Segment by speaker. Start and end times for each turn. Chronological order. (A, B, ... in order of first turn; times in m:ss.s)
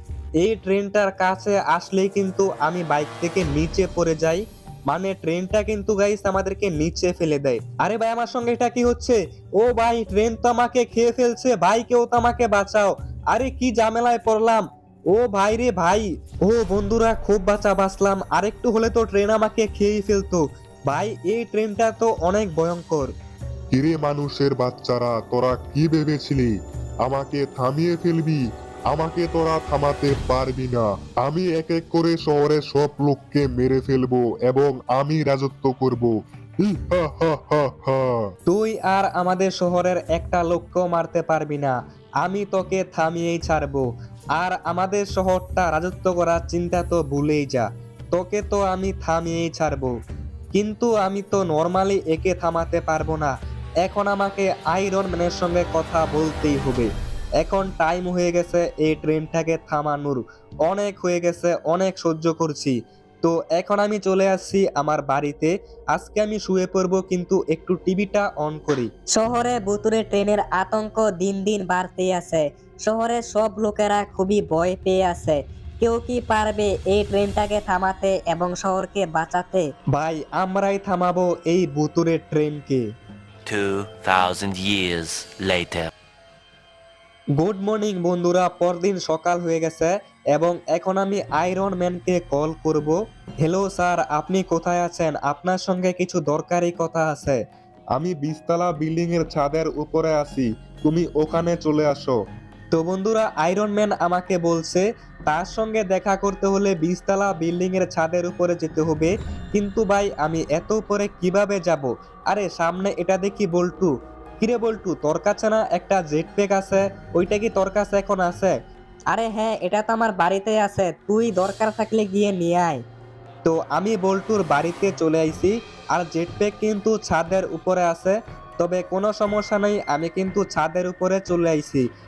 0:00.4-0:23.1 A
0:23.7-0:26.5 B
0:27.0-0:38.3 B
0:38.5-0:49.9 A
0:50.5-0:56.9 A
0:57.4-1:08.9 A
1:09.1-1:19.7 C
1:19.9-1:22.8 A
1:23.5-1:25.9 D
1:27.4-1:37.4 A
1:38.0-1:42.2 A
1:42.7-1:58.6 A
1:59.1-2:02.8 C
2:03.4-2:11.8 A